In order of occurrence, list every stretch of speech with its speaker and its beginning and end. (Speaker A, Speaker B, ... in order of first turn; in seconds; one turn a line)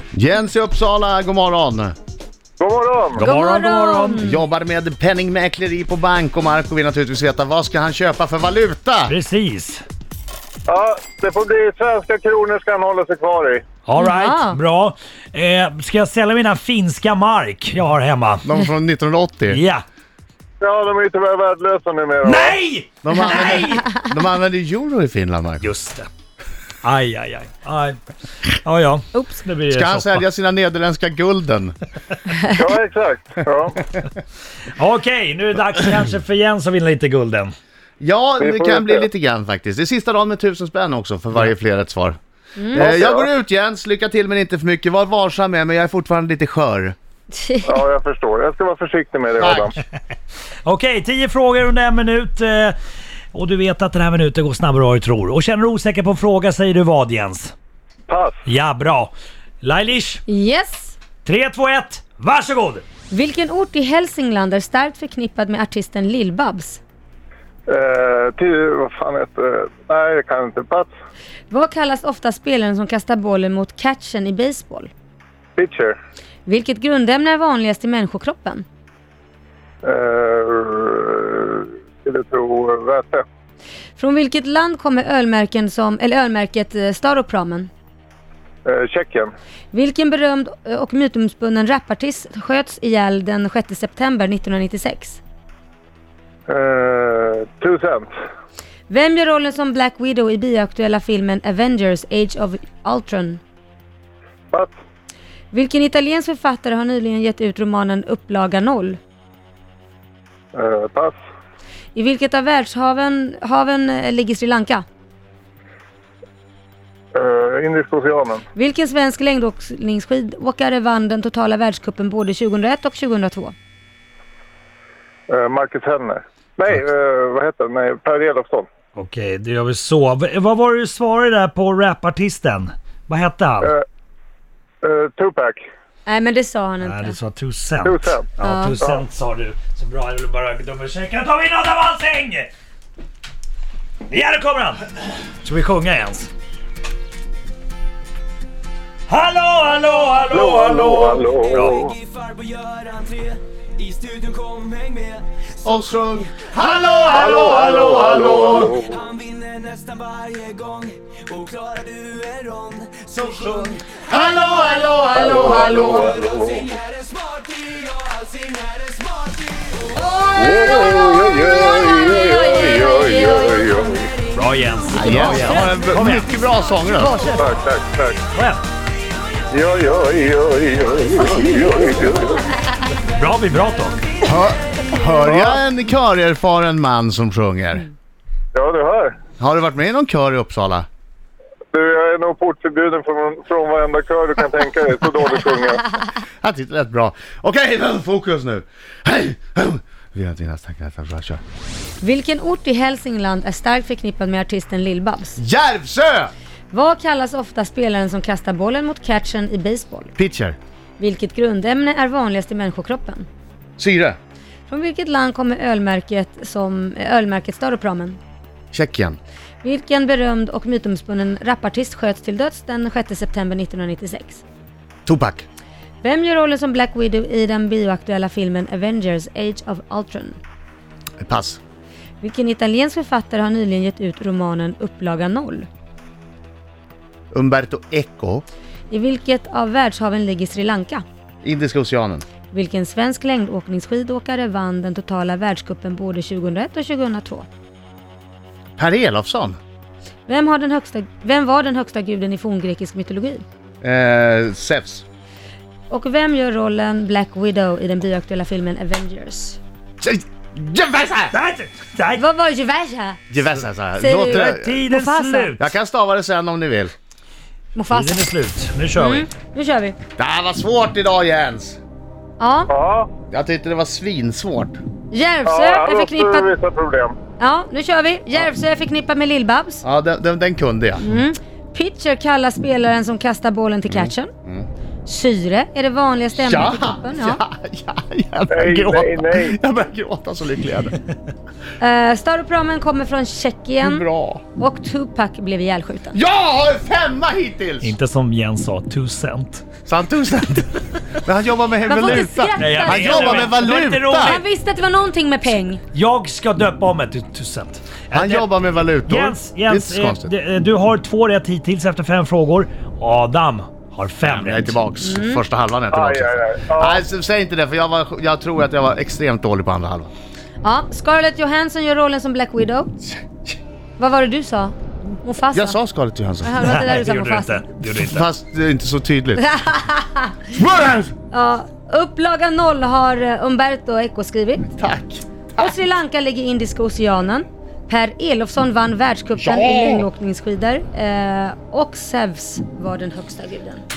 Speaker A: 0.1-1.9
Speaker B: 2.6-3.2
Speaker C: 3.1-4.2
Speaker D: 3.2-4.4
Speaker A: 4.2-9.2
Speaker C: 9.1-9.8
Speaker B: 10.7-13.6
Speaker C: 13.8-18.5
Speaker D: 14.0-14.6
Speaker A: 18.4-19.6
Speaker C: 19.5-19.8
Speaker B: 20.6-22.6
Speaker C: 22.2-23.9
Speaker A: 23.0-25.7
Speaker C: 25.6-26.1
Speaker C: 26.8-30.2
Speaker D: 29.1-29.4
Speaker A: 29.7-31.8
Speaker B: 32.5-33.8
Speaker C: 34.7-37.5
Speaker A: 38.0-42.2
Speaker B: 38.4-39.1
Speaker D: 42.6-42.9
Speaker A: 42.7-47.0
Speaker B: 42.7-43.3
Speaker D: 47.3-47.8
Speaker B: 47.6-49.8
Speaker A: 49.4-49.7
Speaker C: 50.6-52.8
Speaker C: 53.3-57.5
Speaker B: 58.1-58.4
Speaker C: 58.5-60.2
Speaker D: 60.3-61.0
Speaker C: 61.2-62.9
Speaker D: 63.1-66.8
Speaker B: 67.7-70.9
Speaker D: 71.5-74.9
Speaker B: 75.6-76.0
Speaker D: 76.5-78.7
Speaker B: 79.8-83.2
Speaker D: 84.0-87.7
Speaker B: 88.7-89.3
Speaker D: 89.7-95.2
Speaker B: 96.5-98.1
Speaker D: 98.9-103.4
Speaker D: 105.5-109.0
Speaker B: 110.5-111.2
Speaker D: 111.9-114.8
Speaker B: 117.1-118.4
Speaker D: 118.5-123.5
Speaker B: 125.3-128.7
Speaker C: 128.9-133.7
Speaker B: 134.8-135.6
Speaker D: 136.1-137.2
Speaker C: 136.8-142.5
Speaker B: 137.8-138.3
Speaker D: 138.4-138.8
Speaker C: 144.1-146.3
Speaker C: 149.1-151.9
Speaker B: 150.3-151.9
Speaker E: 152.3-153.3
Speaker E: 153.9-155.2
Speaker A: 155.6-158.8
Speaker B: 157.1-159.1
Speaker E: 159.2-163.1
Speaker A: 163.2-166.2
Speaker B: 165.1-166.7
Speaker E: 166.8-168.9
Speaker D: 169.9-173.9
Speaker B: 170.4-174.1
Speaker C: 174.3-176.4
Speaker A: 174.9-177.3
Speaker D: 177.0-177.4
Speaker B: 177.3-178.2
Speaker C: 178.3-178.6
Speaker B: 179.5-182.5
Speaker C: 183.1-184.0
Speaker A: 184.2-187.9
Speaker B: 185.2-185.6
Speaker B: 188.5-189.2
Speaker A: 189.4-190.9
Speaker B: 191.7-195.9
Speaker A: 196.4-201.4
Speaker D: 202.0-205.4
Speaker A: 205.4-206.3
Speaker D: 206.7-210.1
Speaker A: 210.2-210.6
Speaker D: 211.0-213.3
Speaker A: 213.8-214.2
Speaker D: 214.7-218.2
Speaker A: 218.7-219.2
Speaker D: 219.6-224.4
Speaker A: 225.1-225.5
Speaker D: 226.0-230.4
Speaker A: 231.2-231.6
Speaker D: 232.2-235.7
Speaker A: 237.3-238.4
Speaker D: 238.9-241.0
Speaker A: 241.4-242.2
Speaker D: 242.5-247.5
Speaker A: 248.8-249.6
Speaker D: 250.3-253.4
Speaker A: 253.8-255.1
Speaker D: 255.9-259.6
Speaker A: 260.0-261.4
Speaker C: 261.3-262.2
Speaker D: 262.2-263.2
Speaker A: 263.3-264.8
Speaker D: 264.0-265.5
Speaker C: 264.2-265.7
Speaker A: 265.6-266.9
Speaker D: 267.8-268.2
Speaker C: 267.9-269.3
Speaker D: 269.0-270.0
Speaker A: 270.2-271.8
Speaker D: 272.4-272.7
Speaker B: 272.7-273.1
Speaker A: 273.3-274.8
Speaker D: 275.1-276.5
Speaker B: 275.5-277.2
Speaker D: 277.4-279.8
Speaker A: 279.8-281.1
Speaker D: 281.0-284.3
Speaker A: 283.9-284.7
Speaker D: 285.1-287.4
Speaker A: 286.3-291.0
Speaker B: 288.5-289.6
Speaker D: 291.8-294.1
Speaker A: 293.8-294.4
Speaker D: 294.6-296.2
Speaker A: 296.1-297.9
Speaker C: 297.8-299.7
Speaker A: 299.9-304.4
Speaker D: 301.9-303.5
Speaker C: 302.6-304.4
Speaker D: 304.2-305.8
Speaker C: 305.9-308.5
Speaker A: 308.1-310.3
Speaker C: 309.1-314.8
Speaker A: 314.2-320.1
Speaker D: 315.0-315.4
Speaker B: 315.9-317.0
Speaker D: 320.6-322.9
Speaker D: 324.0-325.8
Speaker A: 325.5-326.6
Speaker D: 326.4-327.7
Speaker C: 326.6-328.3
Speaker A: 328.0-329.5
Speaker D: 329.4-330.5
Speaker A: 330.6-331.1
Speaker D: 331.3-334.8
Speaker A: 334.8-335.7
Speaker D: 335.6-343.8
Speaker A: 339.4-340.1